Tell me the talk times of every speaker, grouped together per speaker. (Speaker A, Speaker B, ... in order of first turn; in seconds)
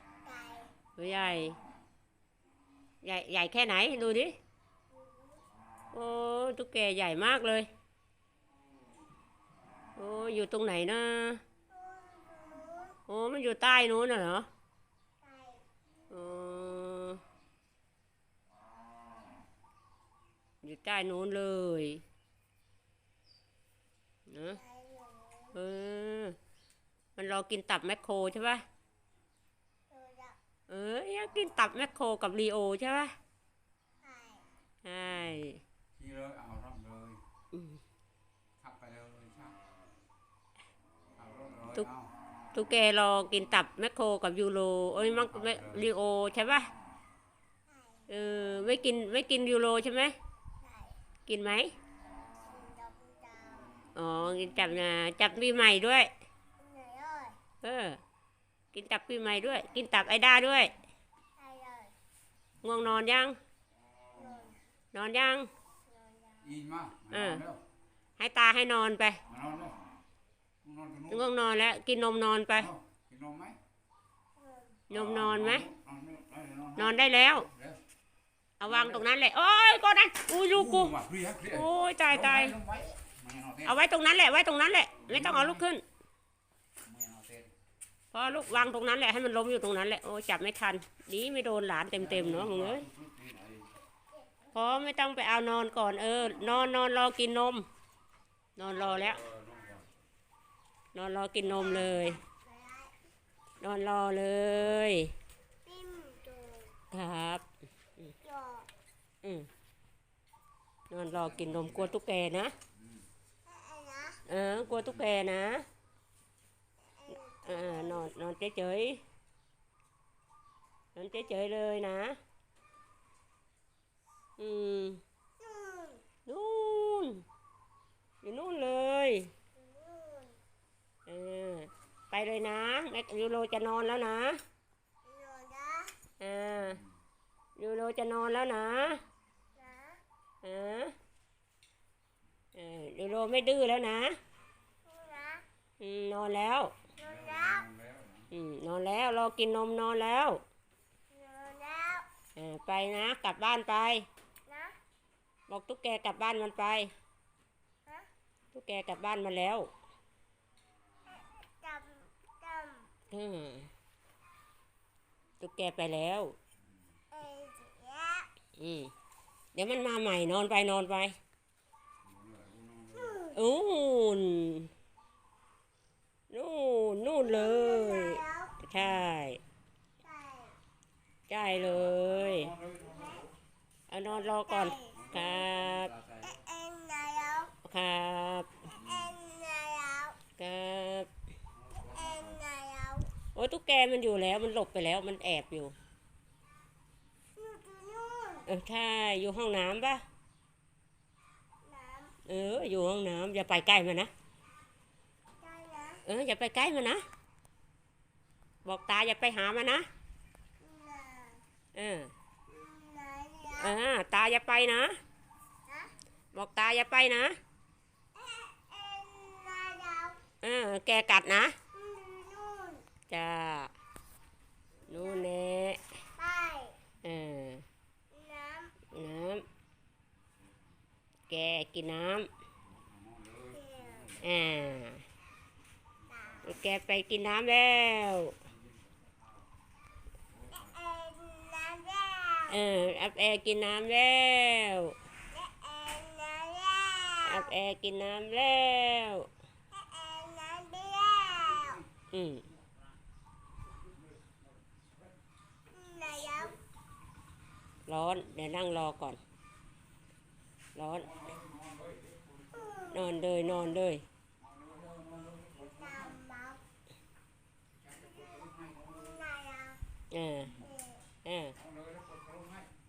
Speaker A: 0.2-0.9, 4.9-5.4, 11.7-13.0, 15.2-15.6, 24.5-25.5, 29.9-30.4, 34.0-34.6, 50.6-51.0, 52.4-53.7, 56.6-57.4, 61.4-61.9, 64.1-64.6, 65.9-66.5, 74.4-74.8, 101.6-103.0, 105.6-106.7, 108.2-108.7, 113.4-114.2, 117.0-118.0, 125.4-126.0, 129.6-130.4, 135.0-135.9, 139.5-140.0, 144.8-145.4, 147.0-147.6, 151.1-152.1, 154.5-154.8, 161.1-162.9, 167.1-168.3, 173.0-173.3, 177.3-178.5, 180.0-180.6, 184.4-185.0, 186.2-187.5, 188.7-190.2, 191.8-193.1, 197.3-198.5, 201.6-202.2, 205.4-206.0, 210.6-211.4, 212.5-213.8, 215.7-215.9, 218.1-220.2, 221.7-222.8, 226.2-226.8, 228.1-228.8, 233.5-234.7, 236.1-236.5, 240.5-242.6, 245.3-247.5, 249.7-251.8, 255.7-256.6, 262.5-263.6, 265.6-266.6, 268.9-269.8, 270.6-271.0
Speaker B: 1.0-1.6, 3.0-4.3, 5.9-7.7, 9.9-11.4, 13.1-14.5, 16.1-17.2, 20.6-22.0, 24.3-24.6, 25.5-26.4, 27.1-28.6, 30.7-33.1, 34.8-35.6, 37.5-37.8, 42.5-46.7, 48.1-50.1, 51.3-51.7, 53.9-56.1, 57.6-58.0, 58.7-60.7, 62.6-63.4, 64.9-65.5, 67.1-67.4, 68.2-69.2, 71.1-72.7, 74.9-75.7, 76.8-77.5, 78.6-82.5, 83.6-85.8, 88.1-92.9, 94.5-97.7, 98.5-99.2, 100.9-102.2, 103.6-105.1, 106.9-107.4, 109.2-109.5, 110.9-112.5, 114.2-115.7, 117.1-119.0, 120.9-122.2, 124.4-125.0, 126.2-127.2, 128.2-129.3, 131.1-134.4, 136.2-136.8, 137.6-139.0, 140.4-140.9, 142.5-144.2, 145.8-146.7, 148.3-150.4, 152.3-154.1, 155.5-156.9, 158.5-159.7, 163.1-163.7, 165.4-166.3, 168.6-168.9, 169.5-171.2, 173.3-174.7, 176.3-179.4, 181.3-182.5, 183.9-185.9, 187.6-188.7, 190.4-191.1, 193.3-195.7, 198.4-200.0, 202.2-204.1, 206.0-207.0, 208.6-209.9, 211.7-212.1, 213.5-215.0, 216.3-217.4, 220.4-221.6, 223.1-223.7, 224.9-226.0, 227.0-227.7, 228.9-229.4, 231.3-232.3, 234.2-235.0, 236.4-238.3, 242.5-244.9, 247.2-249.3, 252.1-252.4, 257.9-259.2, 260.7-261.2, 262.9-264.0, 270.1-270.6, 271.2-271.6
Speaker C: 35.0-35.4, 35.9-37.2, 38.6-39.5, 41.1-42.1, 45.0-45.9, 66.4-67.6, 69.3-69.8, 70.6-71.3, 72.5-73.6, 74.9-77.8, 78.6-79.1, 80.5-83.8, 85.0-85.7, 86.8-87.5, 88.2-88.7, 91.9-93.7, 98.6-99.9, 101.5-101.8, 111.1-112.0, 112.7-113.1, 114.6-115.1, 136.6-137.0, 146.9-148.3, 172.0-173.2, 178.7-179.1, 181.5-183.3, 184.9-186.4, 188.7-189.2, 191.5-192.4, 232.6-234.4, 238.4-239.3, 240.3-240.7, 254.1-255.1, 261.0-262.9, 264.4-266.2, 267.7-269.2, 270.4-270.7, 271.5-272.7